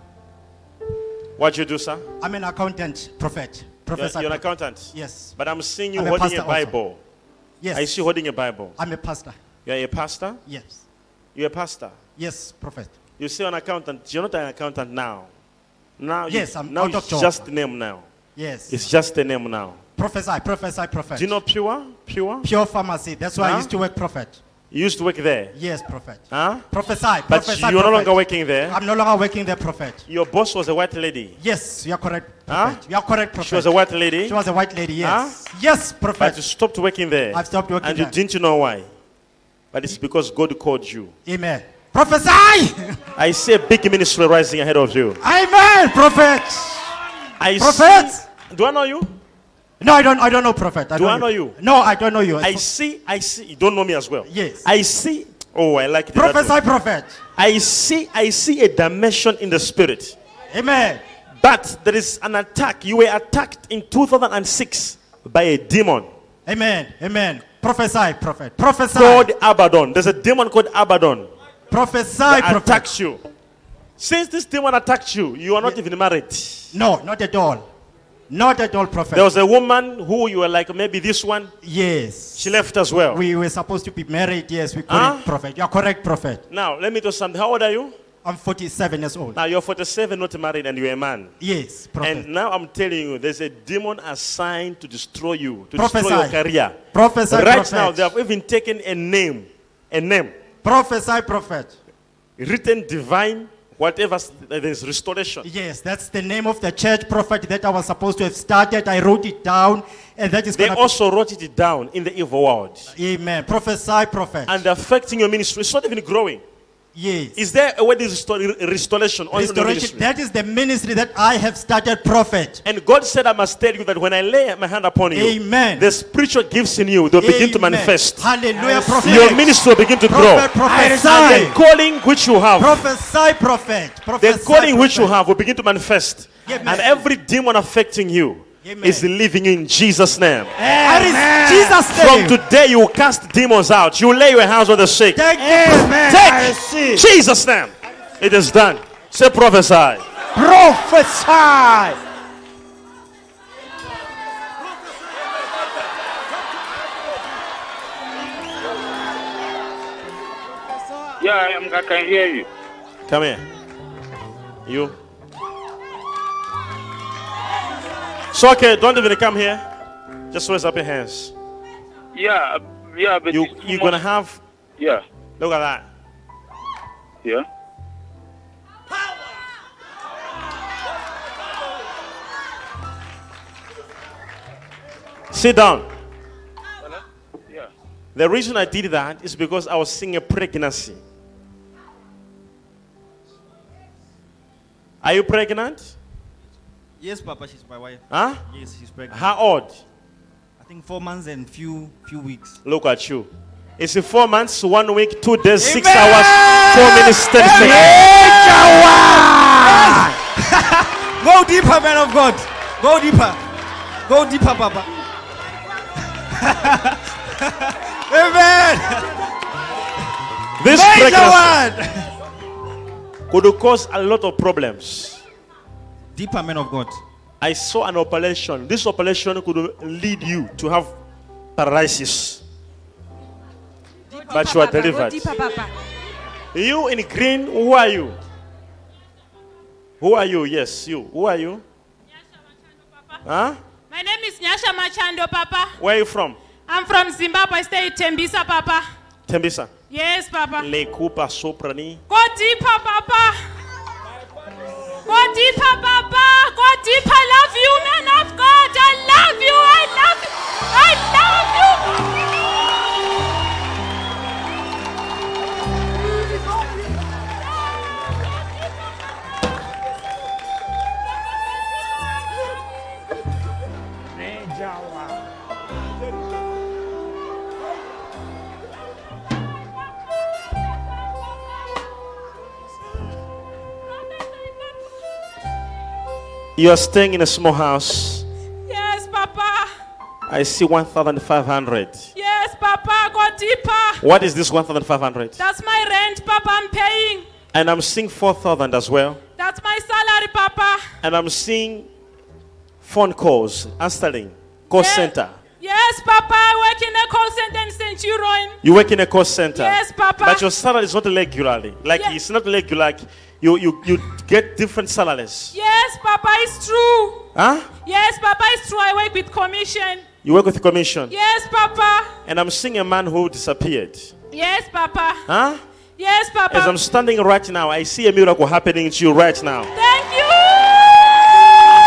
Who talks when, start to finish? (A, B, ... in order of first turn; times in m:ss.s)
0:01.4-0:02.0 A
0:02.2-0:05.4 B
0:03.9-0:07.0 A
0:05.9-0:06.8 B
0:07.6-0:08.0 B
0:07.7-0:08.8 A
0:08.8-0:09.3 B
0:09.6-0:10.4 A
0:10.4-0:10.8 B
0:11.3-0:12.0 A
0:12.2-0:13.0 B
0:13.2-0:15.3 A
0:16.0-0:18.1 A
0:16.3-0:17.5 B
0:18.3-0:18.8 B
0:18.7-0:19.8 A
0:20.0-0:21.4 B
0:21.1-0:22.5 A
0:22.4-0:24.4 B
0:23.4-0:23.7 A
0:24.7-0:25.5 A
0:25.5-0:30.0 B
0:26.3-0:26.6 A
0:27.3-0:28.8 A
0:30.1-0:31.4 A
0:31.4-0:36.4 B
0:32.5-0:32.8 A
0:33.4-0:34.4 A
0:35.0-0:35.5 A
0:36.2-0:38.9 A
0:37.3-0:38.2 B
0:39.7-0:41.1 A
0:41.2-0:43.0 B
0:43.2-0:45.2 A
0:45.2-0:46.9 B
0:47.4-0:49.1 A
0:47.5-0:48.2 B
0:49.8-0:52.6 B
0:51.0-0:51.6 A
0:52.4-0:56.6 A
0:54.2-0:54.6 B
0:56.1-0:57.2 B
0:57.4-1:00.2 A
1:00.5-1:01.0 B
1:01.4-1:06.1 A
1:06.4-1:09.3 B
1:08.9-1:11.3 A
1:11.7-1:12.9 B
1:12.3-1:13.2 A
1:14.0-1:16.7 A
1:16.7-1:17.6 B
1:18.3-1:19.3 B
1:19.1-1:21.5 A
1:21.6-1:22.6 B
1:22.3-1:23.2 A
1:23.1-1:26.4 B
1:24.9-1:25.3 A
1:26.5-1:27.9 A
1:28.2-1:29.4 B
1:29.3-1:31.3 A
1:31.4-1:32.3 B
1:32.0-1:36.8 A
1:35.8-1:36.4 B
1:36.9-1:38.1 B
1:37.3-1:40.3 A
1:40.6-1:41.7 B
1:42.4-1:45.4 A
1:45.4-1:51.0 B
1:50.5-1:52.9 A
1:52.9-1:54.6 B
1:54.5-1:56.4 A
1:56.9-1:57.4 B
1:57.3-2:00.1 A
1:59.3-2:02.6 B
2:02.6-2:08.3 A
2:05.1-2:05.9 B
2:07.2-2:11.6 B
2:08.5-2:09.4 C
2:09.0-2:10.5 A
2:10.6-2:11.5 C
2:11.4-2:12.9 A
2:12.6-2:15.1 B
2:14.2-2:20.5 A
2:16.4-2:17.0 B
2:18.6-2:19.1 B
2:20.6-2:22.4 B
2:20.8-2:21.8 C
2:21.8-2:25.3 A
2:25.1-2:26.1 B
2:25.4-2:27.0 C
2:26.1-2:30.0 A
2:30.4-2:32.0 C
2:41.2-2:42.5 D
2:43.1-2:43.4 A
2:44.6-2:44.9 A
2:48.3-2:49.6 A
2:50.3-2:51.3 A
2:52.2-2:54.0 D
2:53.3-2:54.4 A
2:55.4-2:55.9 A
3:05.3-3:05.9 A
3:08.1-3:11.0 A
3:15.0-3:15.9 A
3:17.0-3:19.2 C
3:18.1-3:18.4 A
3:19.1-3:19.8 A
3:20.6-3:22.6 C
3:22.6-3:28.0 A
3:25.6-3:33.4 C
3:34.1-3:34.9 C
3:36.4-3:39.1 C
3:40.6-3:41.6 A
3:40.7-3:42.0 C
3:43.3-3:45.2 A
3:46.1-3:47.0 C
3:47.4-3:50.9 A
3:51.6-3:52.4 A
3:54.3-3:55.4 A
3:54.3-3:55.7 E
3:56.5-3:58.2 A
4:00.0-4:01.6 A
4:03.2-4:03.6 A
4:03.9-4:05.7 E
4:05.8-4:06.4 A
4:06.7-4:08.8 E
4:09.3-4:09.8 A
4:09.9-4:10.7 E
4:10.6-4:12.0 A
4:12.1-4:13.3 E
4:15.0-4:21.9 E
4:46.6-4:48.2 A
4:48.6-4:49.7 E
4:50.3-4:52.1 A
4:52.2-4:54.0 E
4:54.0-4:55.4 A
4:55.4-4:57.2 E
4:57.5-4:59.2 A
4:59.4-5:00.8 E
5:01.0-5:01.9 A
5:02.8-5:05.4 A
5:04.7-5:08.6 E
5:08.6-5:15.5 A
5:09.6-5:10.4 E
5:15.5-5:17.2 E
5:17.3-5:17.7 A
5:17.8-5:20.0 E
5:20.2-5:21.2 A
5:21.1-5:22.1 E
5:22.2-5:24.1 A
5:24.3-5:25.2 E
5:25.3-5:25.6 A
5:26.0-5:26.8 E
5:26.5-5:29.7 A
5:29.8-5:31.0 E